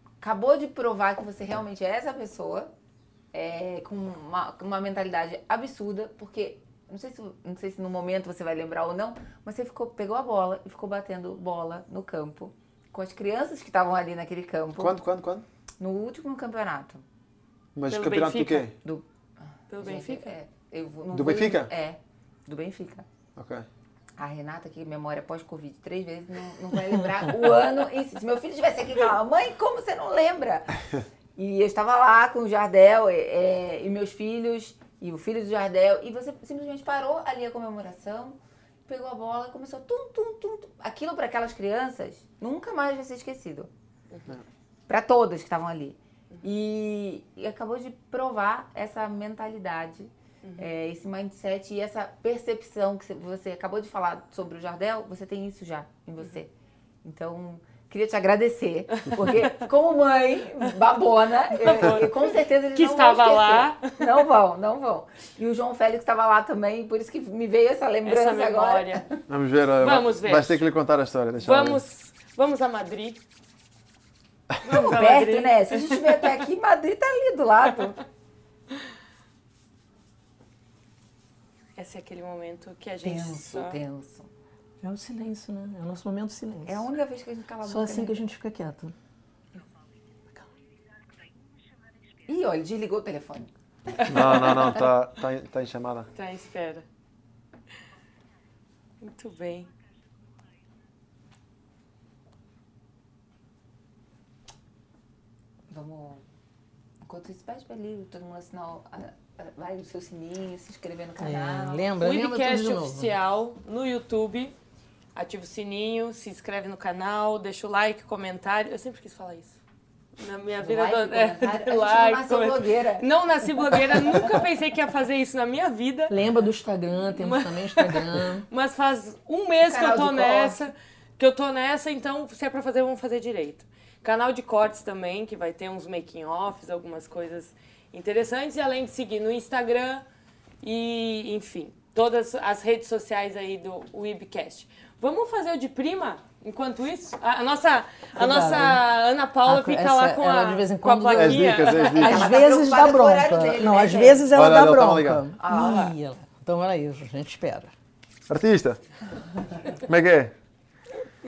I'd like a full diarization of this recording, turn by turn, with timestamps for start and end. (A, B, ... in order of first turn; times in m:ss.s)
0:00.2-0:02.7 A
0:03.3-0:15.0 A
0:14.8-0:15.4 B
0:15.8-0:17.0 A
0:17.7-0:18.7 B
0:17.9-0:18.7 C
0:19.7-0:20.3 C
0:19.8-0:23.0 A
0:21.1-0:21.7 B
0:23.4-0:23.6 B
0:24.2-0:30.8 A
0:31.4-0:43.7 A
0:44.9-0:56.5 A
0:50.4-0:50.7 C
0:57.0-1:09.2 A
0:59.1-0:59.5 C
1:01.6-1:04.1 C
1:08.0-1:09.0 C
1:09.3-1:11.8 B
1:09.8-1:10.7 C
1:11.4-1:13.2 C
1:14.6-1:16.2 C
1:14.7-1:18.0 A
1:21.8-1:23.8 C
1:23.0-1:24.3 A
1:24.8-1:26.9 D
1:26.6-1:28.2 A
1:27.6-1:28.9 D
1:32.2-1:33.5 A
1:34.0-1:34.9 C
1:34.0-1:36.1 B
1:36.1-1:36.8 C
1:39.0-1:39.7 C
1:45.7-1:46.2 A
1:47.0-1:51.9 A
1:51.2-1:53.1 D
1:52.0-1:54.5 C
1:55.1-1:59.6 C
2:00.2-2:06.1 C
2:00.6-2:03.0 A
2:03.6-2:04.4 A
2:06.1-2:08.4 D
2:07.2-2:20.0 C
2:09.6-2:10.6 A
2:20.6-2:32.2 C
2:28.1-2:28.8 D
2:29.4-2:37.7 D
2:31.1-2:32.3 B
2:31.9-2:34.3 A
2:34.3-2:35.3 B
2:35.4-2:35.9 A
2:38.3-2:38.8 B
2:39.8-2:40.3 B